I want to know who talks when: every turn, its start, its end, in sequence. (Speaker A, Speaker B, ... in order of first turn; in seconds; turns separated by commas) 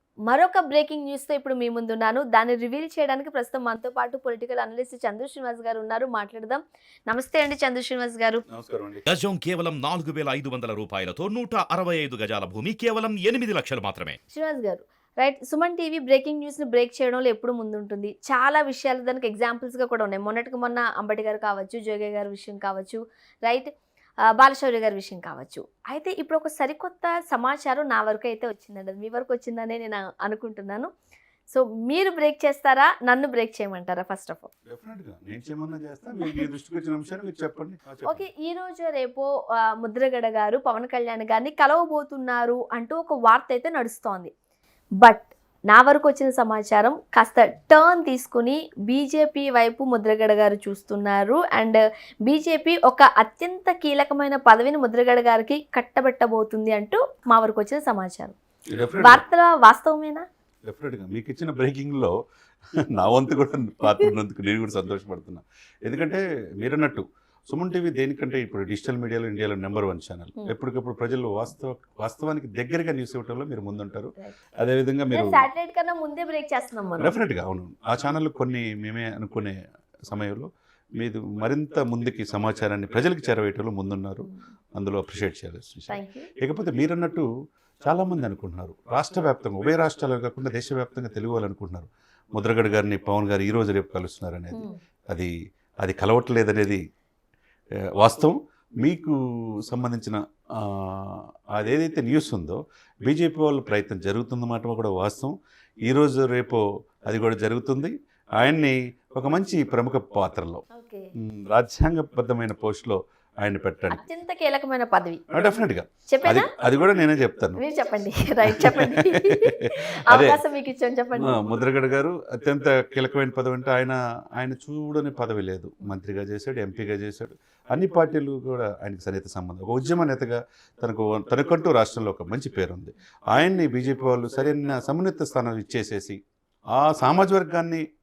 Speaker A: 0.3-8.4, Speaker B: 8.5-9.0, Speaker C: 9.1-14.2, Speaker A: 14.3-23.7, Speaker A: 24.3-30.9, Speaker A: 31.5-34.5, Speaker B: 34.7-38.3, Speaker A: 38.0-44.3, Speaker A: 45.0-58.4, Speaker B: 58.7-59.2, Speaker A: 59.0-60.3, Speaker B: 60.6-62.1, Speaker B: 62.8-75.5, Speaker A: 75.1-77.1, Speaker B: 77.0-87.3, Speaker A: 85.9-86.3, Speaker B: 87.8-96.8, Speaker A: 94.5-94.8, Speaker B: 97.9-105.3, Speaker B: 105.8-110.6, Speaker A: 110.7-111.1, Speaker B: 111.2-114.0, Speaker A: 113.9-115.2, Speaker B: 115.3-117.6, Speaker A: 116.1-116.5, Speaker A: 117.6-121.4, Speaker B: 118.5-120.4, Speaker B: 121.2-136.2, Speaker B: 136.7-137.8